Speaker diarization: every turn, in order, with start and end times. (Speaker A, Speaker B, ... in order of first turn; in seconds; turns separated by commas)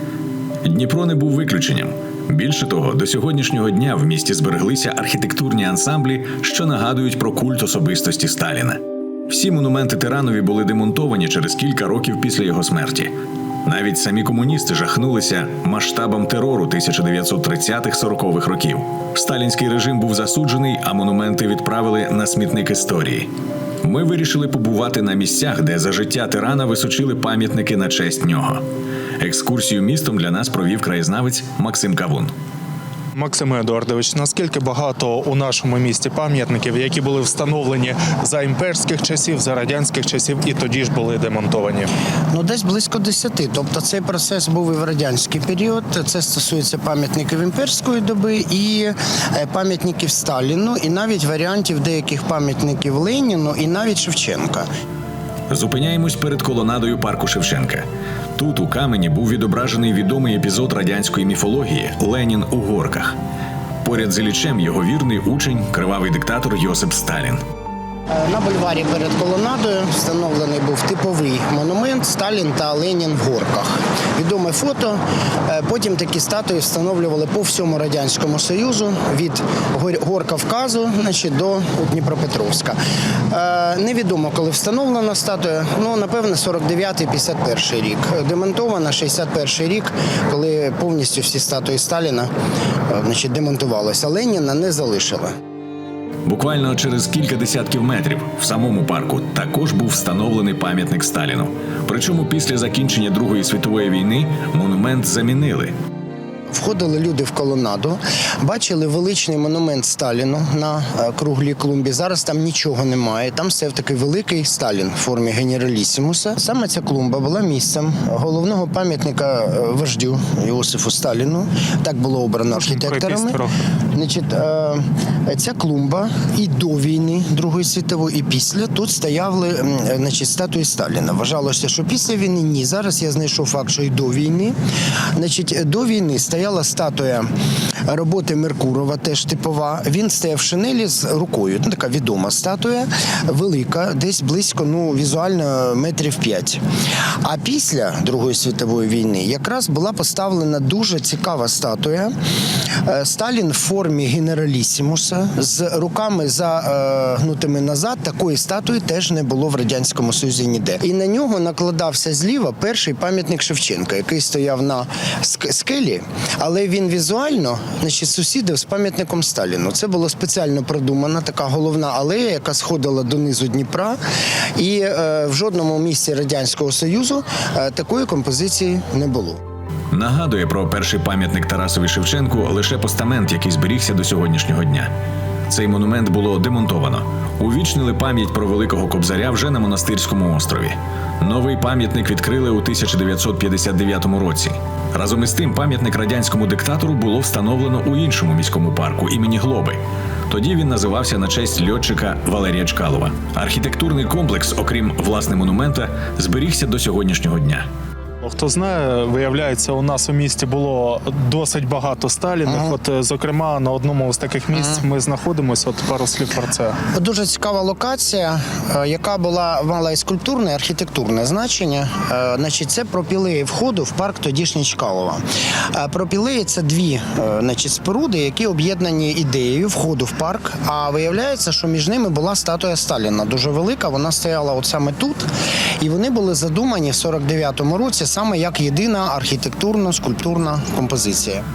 Speaker A: 0.6-13.1, Speaker A: 13.6-23.3, Speaker A: 23.8-28.6, Speaker A: 29.2-32.3, Speaker B: 33.1-41.9, Speaker C: 42.3-54.7, Speaker A: 55.5-63.1, Speaker A: 63.8-67.4, Speaker C: 68.1-82.8, Speaker C: 83.3-92.3, Speaker C: 92.9-95.3, Speaker A: 96.2-105.7, Speaker C: 106.5-123.4, Speaker B: 122.5-123.5, Speaker C: 123.9-134.5, Speaker C: 135.2-137.3, Speaker C: 137.9-146.6, Speaker C: 147.2-152.1, Speaker C: 152.8-174.0, Speaker C: 174.6-179.4, Speaker A: 179.9-184.9, Speaker A: 185.5-207.7, Speaker B: 208.2-216.8, Speaker C: 212.4-212.7, Speaker C: 216.9-225.2, Speaker C: 225.7-235.3, Speaker C: 235.8-241.4